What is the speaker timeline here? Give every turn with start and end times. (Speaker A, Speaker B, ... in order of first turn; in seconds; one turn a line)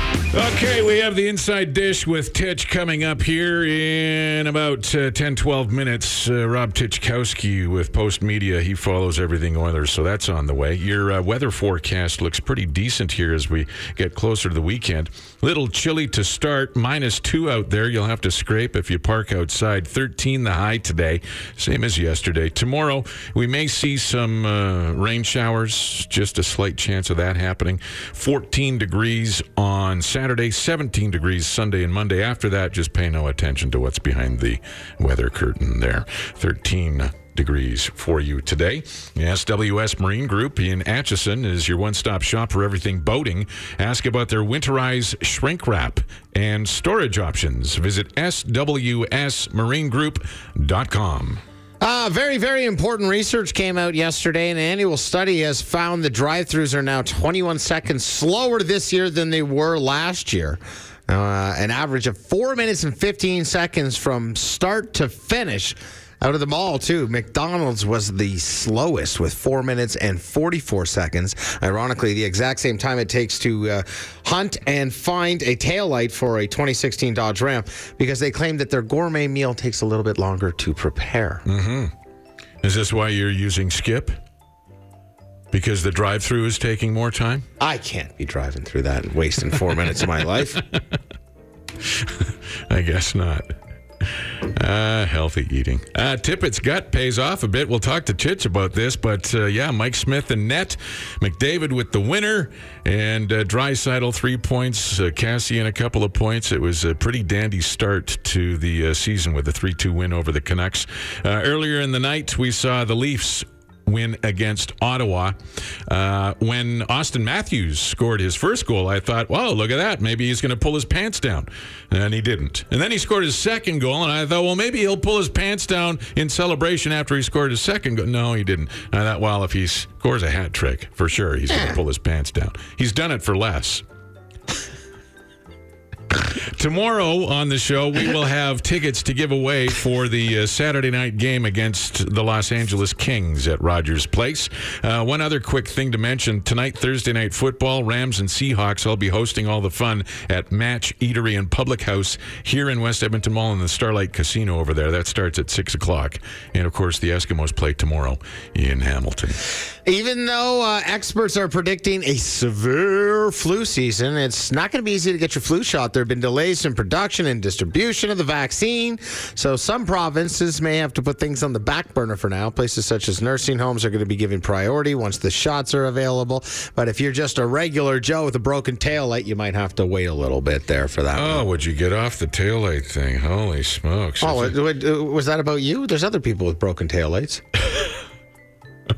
Speaker A: 0.3-51.4
Speaker B: 51.8-81.4
Speaker A: 81.5-81.9
Speaker A: 82.6-84.2
Speaker A: 85.5-87.5
Speaker B: 87.6-90.6
Speaker A: 92.0-93.5
Speaker A: 94.1-133.8
Speaker A: 136.6-159.4
Speaker B: 159.8-181.4
Speaker A: 181.1-184.6
Speaker B: 184.2-187.4